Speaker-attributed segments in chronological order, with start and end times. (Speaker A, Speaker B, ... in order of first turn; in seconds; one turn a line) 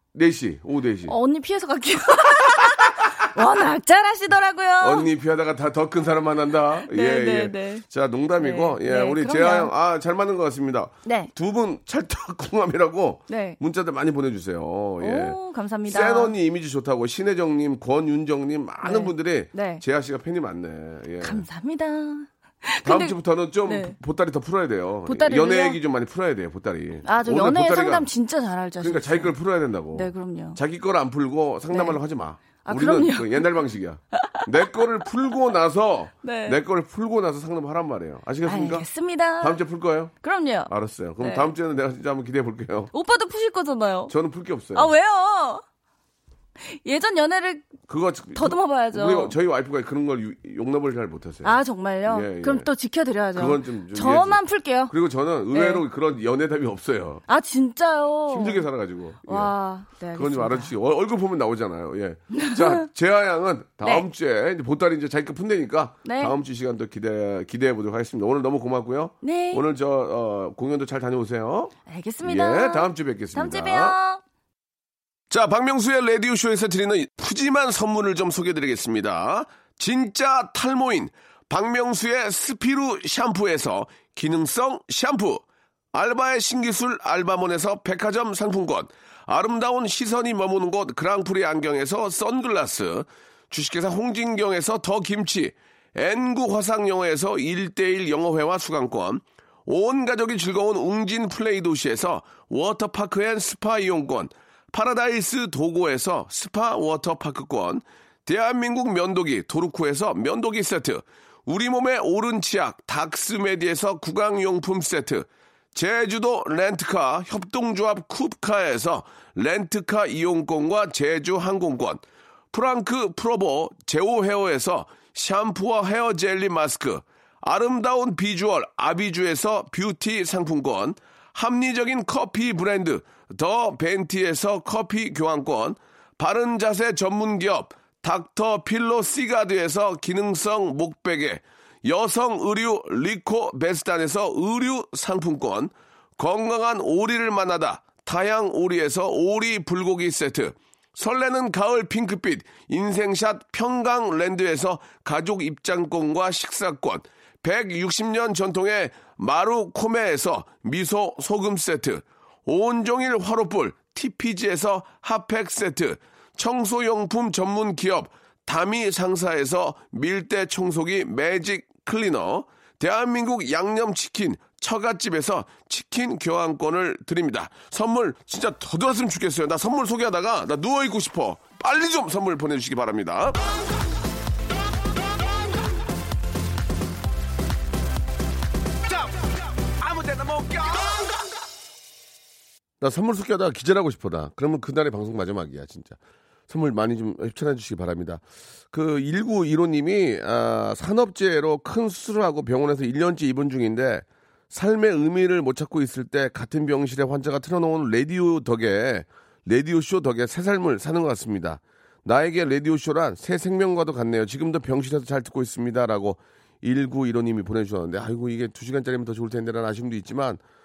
Speaker A: 0.1-1.1
Speaker B: 1.1-5.1
Speaker A: 4.8-21.4
Speaker B: 6.9-7.8
Speaker B: 8.4-9.7
Speaker B: 11.0-11.3
Speaker B: 13.3-13.6
Speaker B: 15.0-16.4
Speaker B: 18.8-19.8
Speaker B: 21.2-23.9
Speaker A: 22.8-28.1
Speaker B: 25.1-25.8
Speaker B: 27.0-29.4
Speaker A: 28.8-38.8
Speaker B: 29.9-30.6
Speaker B: 31.7-32.0
Speaker B: 32.6-33.5
Speaker B: 34.1-34.5
Speaker B: 36.2-36.6
Speaker B: 38.4-39.6
Speaker A: 39.4-40.1
Speaker B: 40.2-41.5
Speaker A: 40.7-42.9
Speaker B: 42.9-44.1
Speaker A: 44.1-44.9
Speaker B: 44.7-45.6
Speaker B: 46.6-47.7
Speaker A: 47.9-52.7
Speaker B: 48.3-49.4
Speaker B: 51.4-54.9
Speaker A: 53.3-57.2
Speaker B: 55.5-55.8
Speaker B: 57.3-58.7
Speaker A: 58.3-59.5
Speaker B: 59.2-60.7
Speaker A: 60.1-74.0
Speaker B: 62.3-62.9
Speaker B: 63.8-64.1
Speaker B: 66.0-66.3
Speaker B: 69.2-69.6
Speaker B: 71.9-74.2
Speaker A: 75.3-183.4
Speaker A: 189.8-190.7
Speaker A: 192.8-196.0
Speaker A: 196.5-220.4